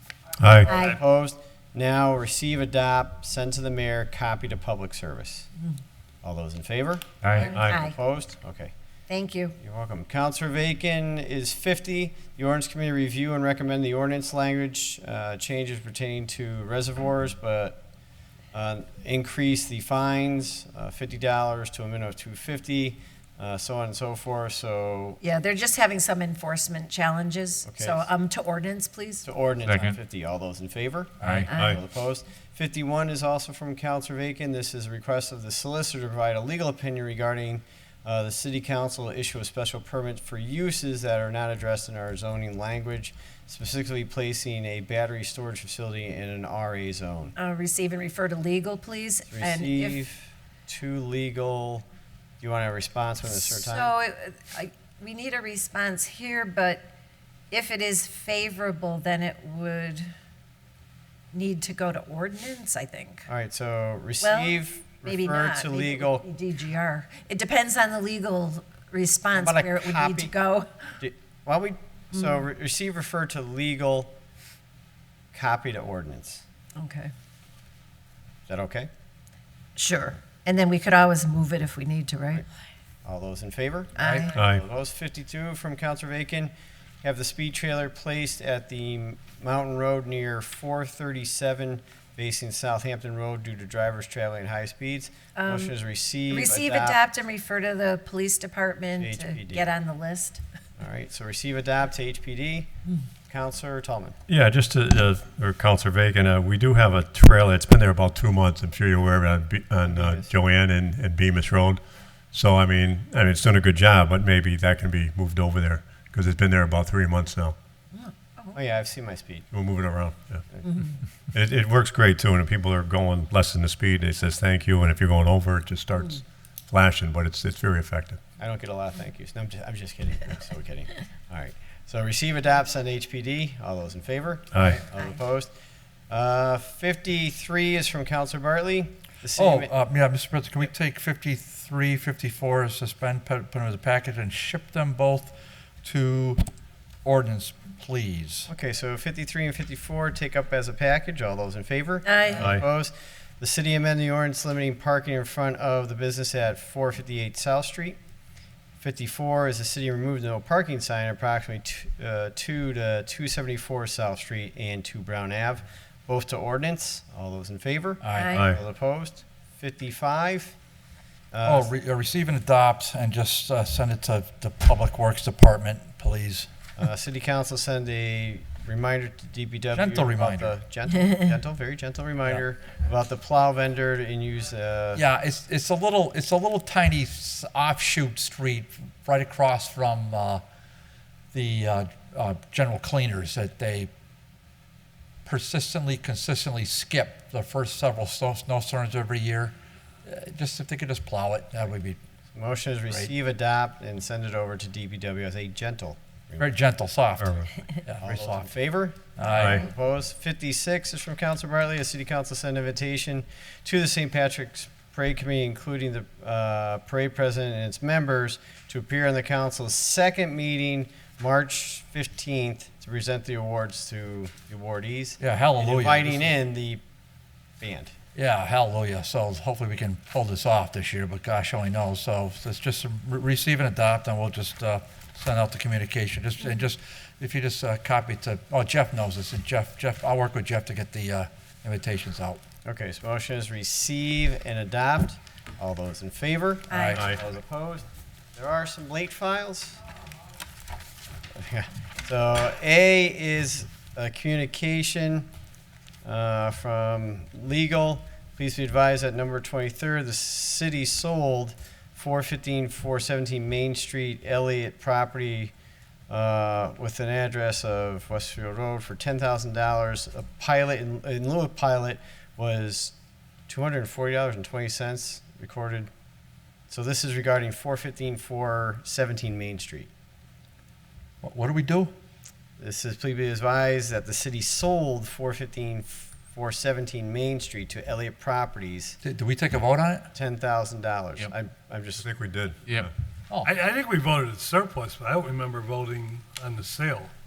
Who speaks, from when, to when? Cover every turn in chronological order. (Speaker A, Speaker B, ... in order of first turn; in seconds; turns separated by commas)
Speaker A: 0.4-0.7, Speaker B: 0.7-1.0, Speaker C: 0.7-5.5, Speaker C: 6.2-8.7, Speaker B: 7.4-8.0, Speaker A: 7.5-7.8, Speaker B: 9.1-9.5, Speaker C: 9.6-17.8, Speaker C: 18.5-25.2, Speaker B: 25.2-29.3, Speaker C: 27.7-28.1, Speaker C: 29.2-47.4, Speaker D: 31.2-31.5, Speaker B: 31.5-31.8, Speaker B: 47.4-50.0, Speaker C: 49.3-51.9, Speaker C: 52.4-53.9, Speaker B: 53.2-56.9, Speaker B: 57.5-60.1, Speaker B: 61.3-63.3, Speaker C: 63.3-66.3, Speaker B: 64.2-70.7, Speaker C: 69.3-70.3, Speaker C: 71.0-74.1, Speaker C: 75.3-76.4, Speaker B: 76.8-77.1, Speaker C: 78.5-78.9, Speaker B: 79.8-82.5, Speaker C: 83.0-86.5, Speaker B: 84.0-84.4, Speaker D: 84.0-84.3, Speaker A: 84.4-84.6, Speaker C: 87.0-97.0, Speaker B: 95.4-95.7, Speaker B: 96.3-100.4, Speaker C: 99.0-99.7, Speaker C: 100.8-102.7, Speaker C: 103.3-104.2, Speaker A: 104.3-117.6, Speaker C: 109.8-110.3, Speaker B: 117.9-118.6, Speaker C: 118.5-119.5, Speaker A: 119.5-120.5, Speaker B: 120.6-121.0, Speaker A: 121.3-128.2, Speaker C: 128.4-135.5, Speaker A: 134.5-134.8, Speaker C: 136.1-139.8, Speaker D: 139.3-145.3, Speaker D: 145.8-146.4, Speaker D: 147.0-148.5, Speaker C: 148.5-158.0, Speaker B: 152.1-152.5, Speaker C: 158.8-170.6, Speaker D: 168.0-168.3, Speaker B: 168.1-168.5, Speaker A: 168.3-168.6, Speaker C: 171.3-171.7, Speaker D: 171.4-176.5, Speaker C: 176.8-185.0, Speaker D: 179.7-180.5, Speaker D: 184.9-190.4, Speaker D: 191.3-193.9, Speaker D: 195.2-202.0, Speaker C: 202.3-206.5, Speaker D: 206.4-208.5, Speaker A: 207.2-207.5, Speaker C: 208.0-226.8, Speaker D: 209.2-209.6, Speaker A: 209.4-209.6, Speaker D: 225.2-226.3, Speaker C: 227.6-227.9, Speaker D: 228.2-242.4, Speaker C: 242.7-249.8, Speaker B: 246.7-247.1, Speaker D: 246.7-247.1, Speaker C: 251.3-255.3, Speaker C: 256.0-265.5, Speaker C: 266.1-272.9, Speaker C: 273.5-275.9, Speaker C: 276.7-279.9, Speaker D: 281.2-281.9, Speaker C: 282.6-289.0, Speaker D: 289.0-290.1, Speaker C: 290.1-292.1, Speaker A: 292.0-292.9, Speaker E: 293.5-297.0